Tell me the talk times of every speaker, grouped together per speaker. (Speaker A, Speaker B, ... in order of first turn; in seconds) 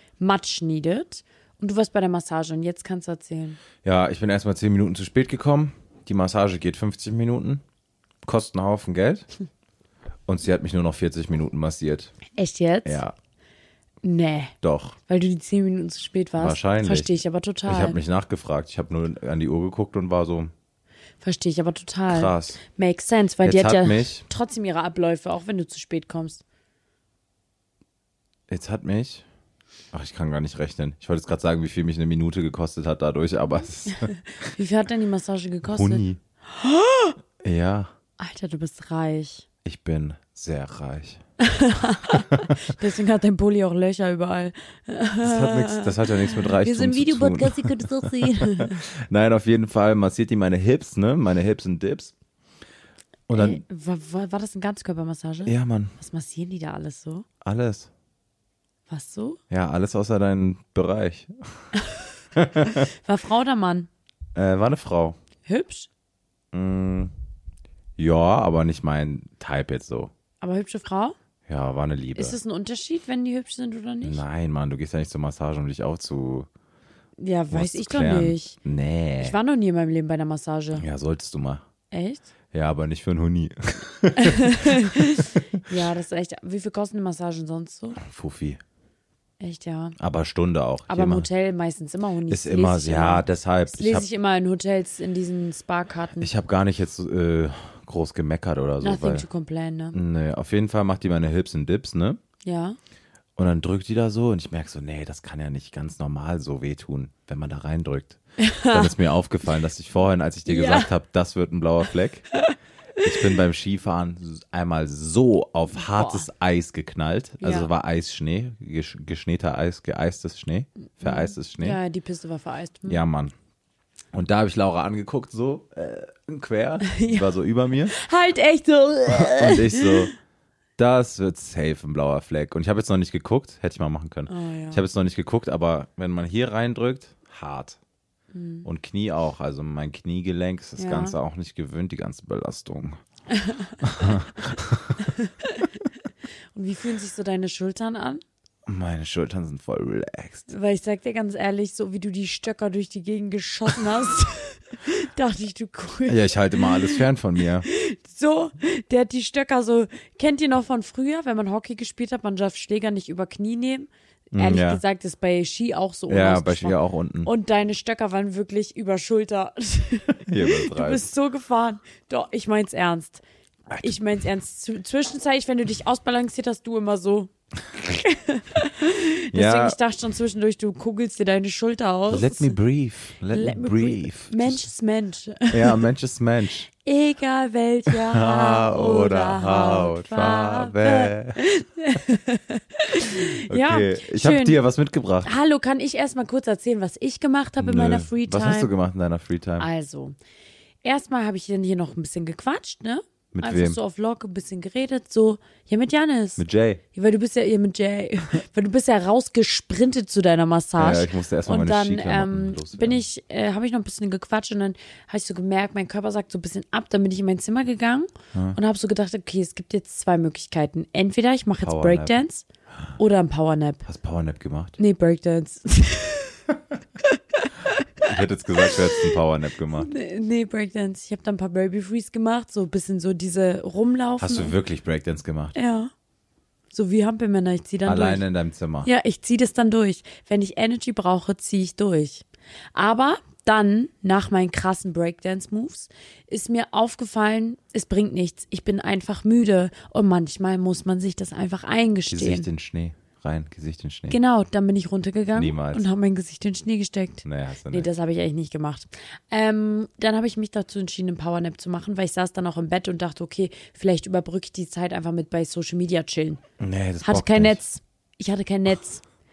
Speaker A: 0.2-3.6, 12.3-13.0, 14.0-14.5, 15.1-18.0, 21.2-26.4, 33.9-37.2, 38.2-39.5, 41.4-48.8, 53.4-57.2, 58.9-59.4, 61.7-62.1, 62.7-63.9, 65.5-65.9, 70.4-71.2, 72.2-74.2, 77.2-78.5, 79.2-80.8, 81.9-82.3, 84.1-88.0, 89.4-90.0, 90.9-96.3, 98.8-100.0, 102.4-102.8, 108.4-108.9, 110.4-110.9, 115.8-116.3, 117.4-117.7, 121.0-123.0, 126.8-127.3, 127.8-130.1, 134.3-134.8, 138.3-138.7, 140.8-141.2, 143.3-144.2, 145.0-145.8, 146.5-148.2, 150.5-157.0, 157.6-173.2, 173.8-182.5, 183.3-185.9, 186.7-194.6, 195.2-198.7, 199.6-200.2, 200.8-206.4, 206.9-222.4, 223.0-223.8, 224.8-226.4, 227.0-228.1, 228.6-229.1, 229.8-234.5, 235.5-235.9, 236.7-238.2, 238.8-252.5, 254.1-266.4, 267.0-269.0
Speaker B: 3.8-7.6, 8.2-9.3, 10.3-12.1, 12.8-13.1, 14.6-15.0, 16.4-20.5, 22.1-22.6, 23.4-24.2, 28.5-29.2, 29.9-34.1, 35.6-36.2, 37.4-37.9, 39.6-41.2, 42.1-42.5, 45.2-52.1, 53.3-53.6, 55.5-55.9, 57.4-57.9, 59.5-61.6, 62.4-62.9, 64.3-65.2, 66.5-67.1, 68.0-70.1, 71.5-72.4, 74.0-76.5, 77.5-79.3, 80.8-81.6, 82.5-85.0, 88.0-88.6, 90.0-91.3, 92.3-94.0, 96.2-99.2, 99.9-102.2, 103.3-108.2, 108.7-112.2, 113.0-121.8, 122.9-123.3, 124.1-127.9, 129.1-130.1, 130.8-137.8, 138.6-143.0, 143.8-145.0, 148.7-150.5, 156.1-157.7, 164.3-164.8, 166.1-167.3, 170.2-171.1, 173.7-174.0, 179.3-179.8, 182.1-184.7, 185.5-186.7, 187.9-191.4, 193.5-195.3, 197.6-199.7, 203.3-203.8, 206.4-206.8, 210.8-213.0, 221.6-222.2, 223.8-224.8, 228.0-229.9, 234.2-235.5, 237.8-238.9, 252.1-254.2, 255.3-255.8, 257.2-257.9, 266.6-267.6